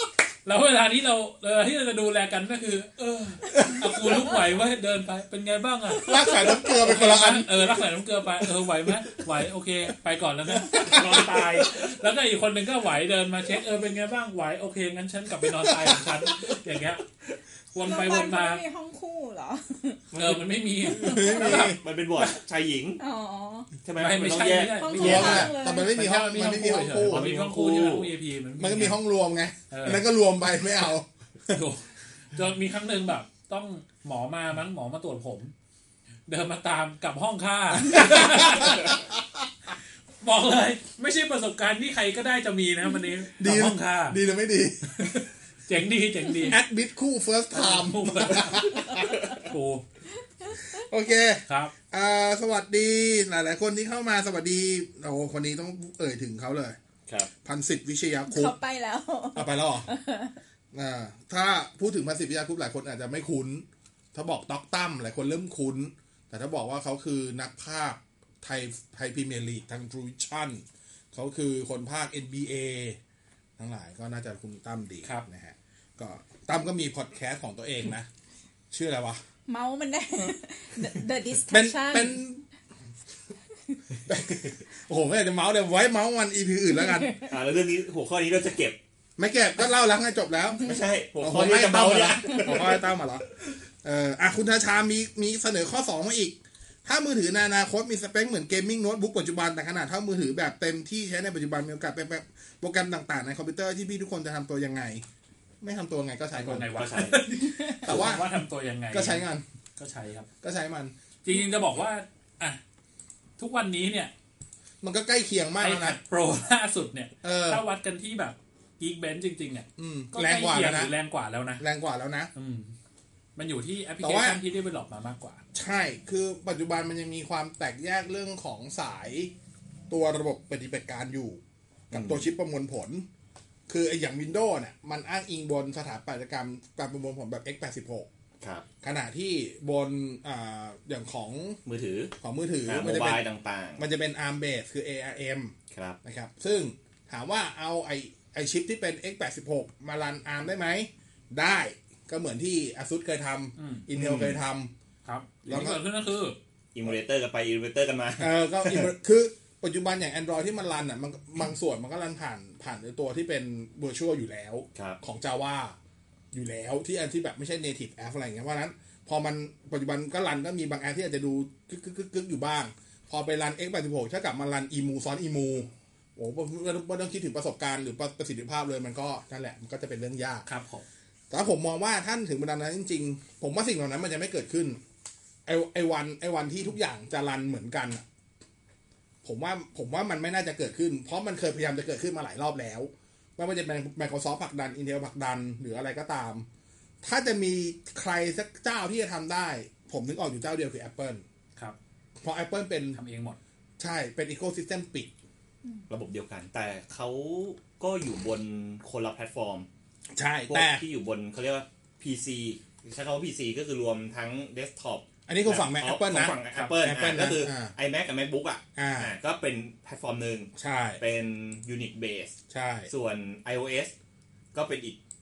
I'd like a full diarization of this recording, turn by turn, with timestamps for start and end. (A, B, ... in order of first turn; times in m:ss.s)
0:00.4-0:17.0 A
0:03.5-0:04.3 B
0:06.0-0:09.2 B
0:10.5-0:11.6 B
0:15.6-0:16.3 B
0:17.7-0:18.6 A
0:17.8-0:20.0 C
0:20.1-0:20.5 D
0:20.1-0:22.4 A
0:20.8-0:21.8 B
0:20.9-0:21.4 C
0:21.2-0:23.0 D
0:23.0-0:23.7 C
0:23.8-0:25.5 D
0:24.0-0:29.0 A
0:24.7-0:25.9 C
0:25.0-0:27.3 B
0:27.0-0:28.1 D
0:28.6-0:31.6 B
0:29.7-0:30.0 A
0:31.5-0:35.5 A
0:36.3-0:39.0 A
0:37.7-0:39.4 B
0:40.2-0:44.2 A
0:43.4-0:45.2 B
0:44.9-0:46.6 A
0:46.4-0:49.1 B
0:47.5-0:49.8 A
0:50.4-0:50.8 C
0:50.7-0:56.8 B
0:51.5-0:51.7 A
0:57.4-0:58.5 B
0:58.3-1:00.4 C
0:59.3-0:59.9 B
1:00.7-1:13.0 B
1:13.6-1:18.1 B
1:18.7-1:19.2 B
1:19.5-1:22.2 C
1:21.5-1:22.4 B
1:24.1-1:27.1 B
1:26.9-1:27.2 C
1:27.2-1:28.8 D
1:29.2-1:33.2 B
1:30.6-1:32.9 D
1:33.8-1:45.0 B
1:45.6-1:46.8 B
1:46.3-1:49.2 A
1:46.7-1:47.4 D
1:47.4-1:47.6 C
1:47.8-1:48.3 B
1:48.9-1:49.4 B
1:49.8-1:50.3 A
1:50.4-1:50.9 B
1:51.2-1:52.6 A
1:53.4-1:54.1 A
1:54.8-1:56.0 B
1:55.6-2:01.7 A
1:57.2-1:57.6 B
1:59.8-2:00.9 B
2:01.6-2:02.3 B
2:02.3-2:02.7 A
2:03.4-2:05.4 A
2:04.0-2:04.4 B
2:05.5-2:09.3 B
2:09.9-2:13.0 B
2:11.9-2:12.2 D
2:13.7-2:18.1 B
2:18.4-2:18.6 D
2:18.8-2:21.6 B
2:21.6-2:22.1 D
2:22.2-2:23.2 B
2:22.6-2:23.8 D
2:23.8-2:34.7 B
2:25.7-2:26.0 D
2:33.6-2:33.8 A
2:33.9-2:34.4 D
2:35.0-2:36.4 A
2:35.4-2:35.8 B
2:36.7-2:38.9 D
2:38.2-2:45.8 B
2:44.7-2:45.0 D
2:46.3-3:00.5 B
3:00.4-3:00.8 A
3:01.3-3:04.8 B
3:05.4-3:08.0 B
3:09.2-3:16.5 B
3:17.0-3:21.2 B
3:22.2-3:23.0 B
3:22.9-3:23.4 A
3:23.8-3:25.1 B
3:25.9-3:29.7 D
3:30.1-3:30.8 B
3:30.5-3:42.4 D
3:35.3-3:37.7 B
3:38.8-3:39.1 B
3:40.6-3:41.0 B
3:42.5-3:42.9 B
3:42.9-3:43.9 D
3:44.5-3:45.0 D